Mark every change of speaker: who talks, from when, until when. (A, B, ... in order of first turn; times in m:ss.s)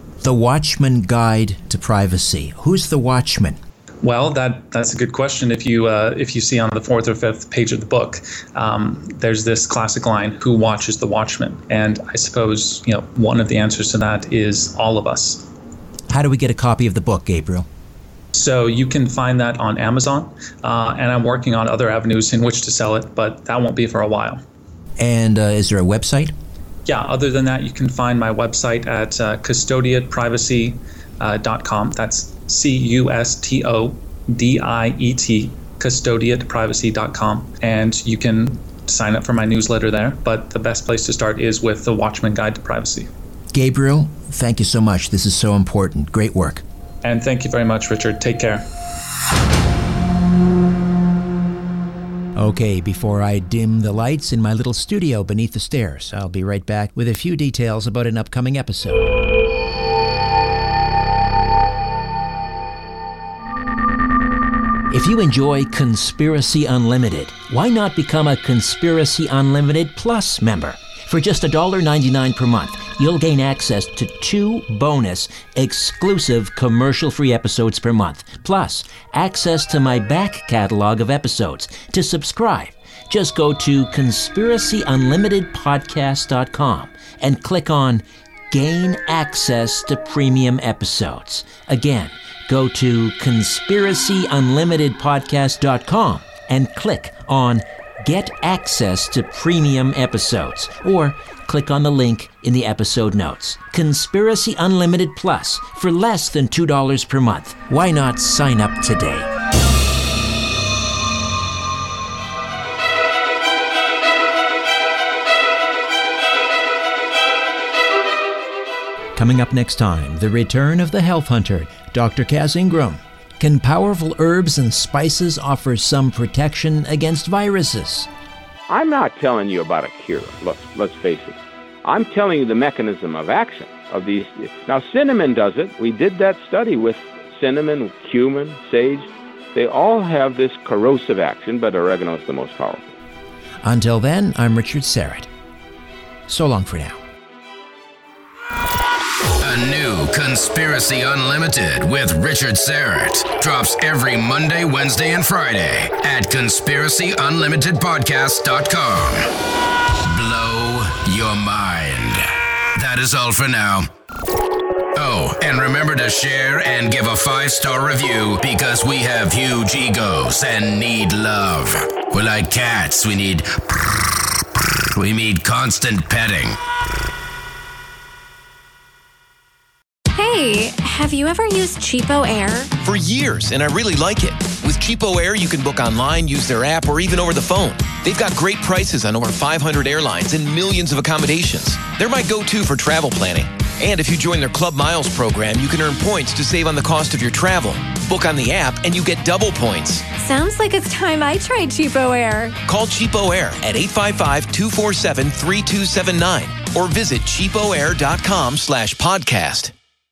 0:00.2-0:03.6 A
0:04.0-0:15.5 B
0:16.1-0:17.7 A
0:18.3-0:24.4 B
0:25.0-0:26.3 A
0:26.8-0:43.1 B
0:43.5-0:46.6 A
0:47.0-0:48.6 B
0:52.4-0:59.2 A
1:04.9-1:49.3 A
1:59.2-2:08.1 A
2:08.7-2:22.8 C
2:23.6-2:25.3 A
2:26.3-2:27.0 A
2:29.4-2:39.3 D
2:40.0-2:43.9 D
2:44.9-2:54.2 D
2:54.9-2:56.6 D
3:00.1-3:02.7 E
3:02.8-3:20.1 F
3:20.2-3:22.6 E
3:22.7-3:29.7 F